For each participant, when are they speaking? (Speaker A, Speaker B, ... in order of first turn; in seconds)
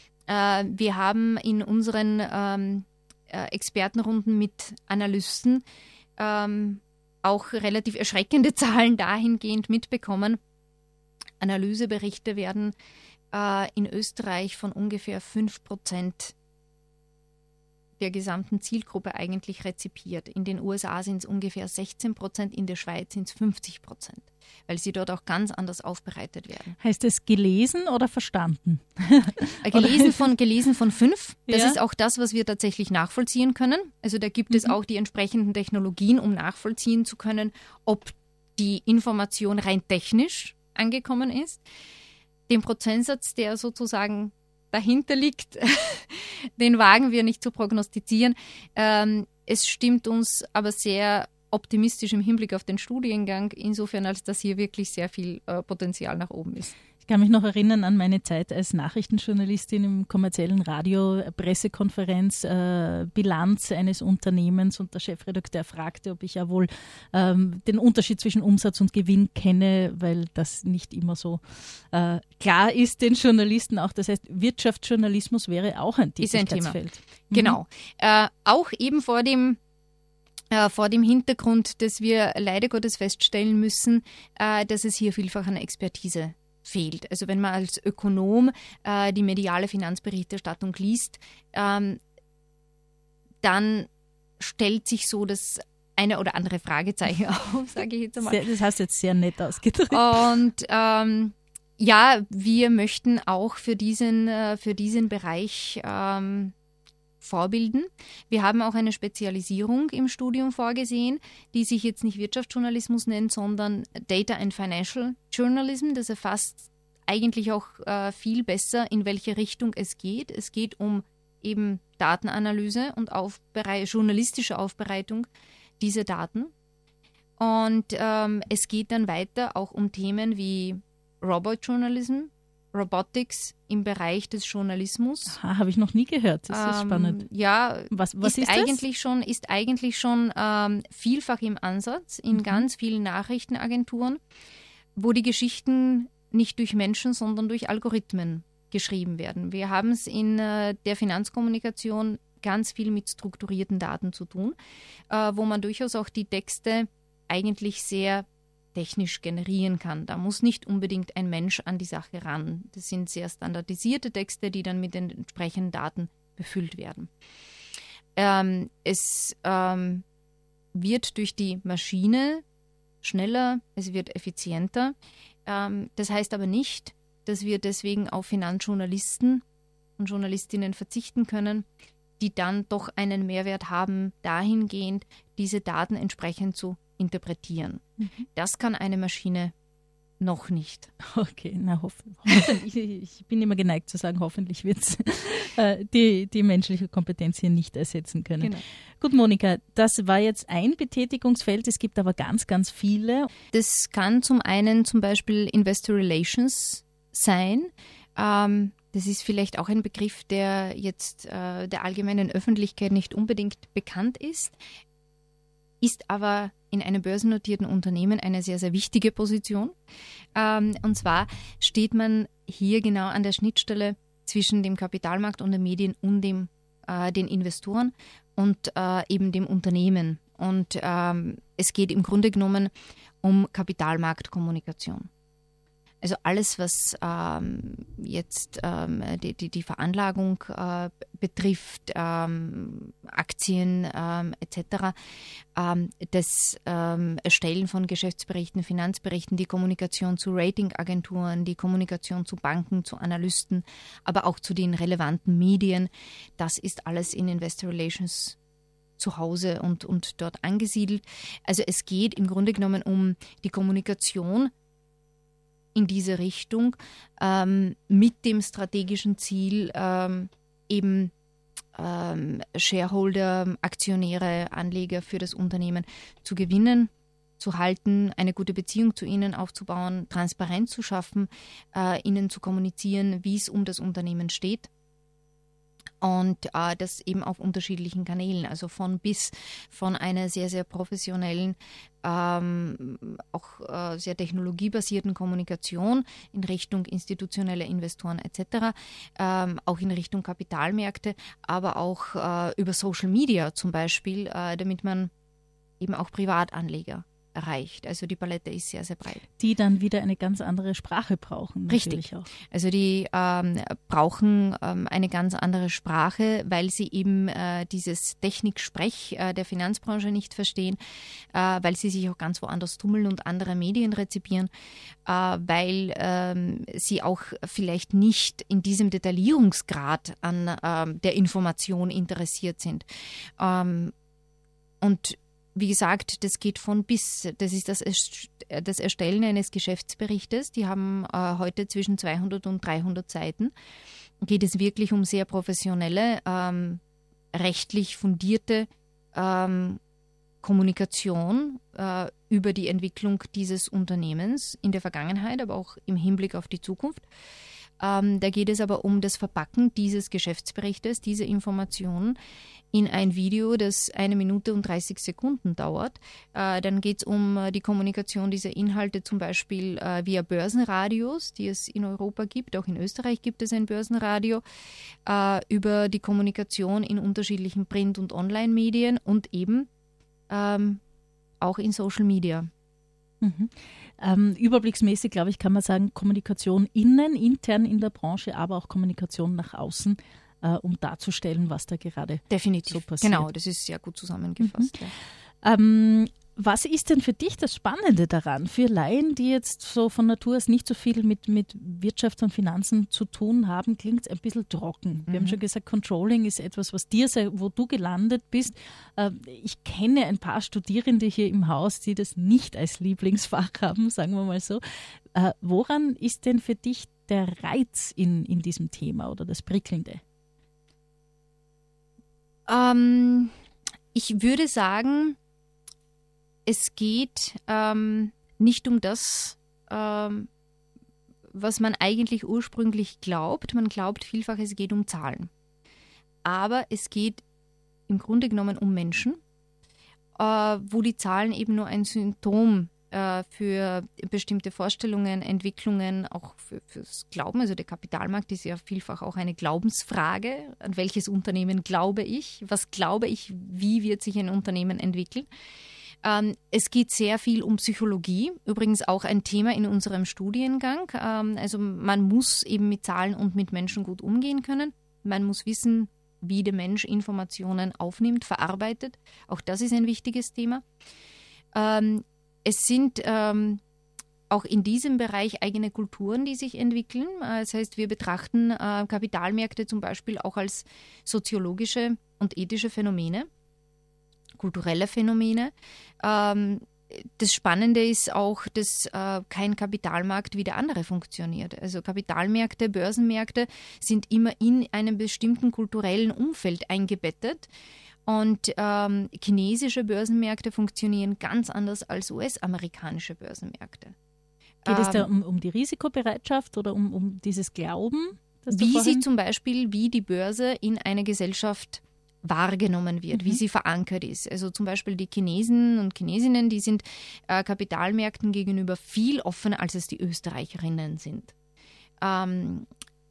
Speaker A: 0.3-5.6, 6.2-10.4, 11.4-12.7, 13.3-16.3, 18.0-26.8, 29.6-41.6, 42.5-56.8, 76.2-79.6, 80.5-92.0, 93.4-98.4, 99.9-106.5, 107.2-125.3, 125.8-126.5, 127.4-135.4, 136.5-144.2, 144.9-154.5, 155.1-167.1, 168.2-170.0, 170.7-172.4, 173.0-174.9, 175.4-179.4, 180.0-181.7, 182.2-189.5, 190.2-190.9, 203.5-214.6, 215.8-219.7, 220.3-232.7, 233.2-235.1, 236.0-244.9, 245.6-258.4, 259.0-264.5, 265.7-271.1, 271.7-284.7, 286.0-305.1, 305.8-309.2, 311.7-320.8, 321.3-324.5, 325.1-332.8, 333.4-333.9, 334.8-343.5, 344.2-346.8, 347.3-349.8, 350.4-357.1, 357.8-362.2, 362.7-374.4, 375.1-379.7, 380.3-380.8, 381.4-382.5, 392.3-394.9, 405.1-405.4, 422.5-423.3, 423.9-425.2, 426.4-430.3, 431.3-435.3, 436.2-437.2, 437.9-439.2, 440.1-455.3, 456.0-470.6, 471.5-473.6, 474.3-483.3, 484.4-497.5, 498.1-503.9, 504.6-505.1, 508.5-521.3, 522.0-522.7
Speaker B: 26.8-30.2, 31.5-31.8, 34.5-34.7, 57.0-77.6, 98.2-100.2, 135.3-137.2, 137.9-138.8, 142.3-142.6, 191.0-203.3, 309.4-312.3, 383.2-393.2, 394.4-394.7, 395.4-414.6, 415.1-420.0, 504.6-509.0, 513.1-513.4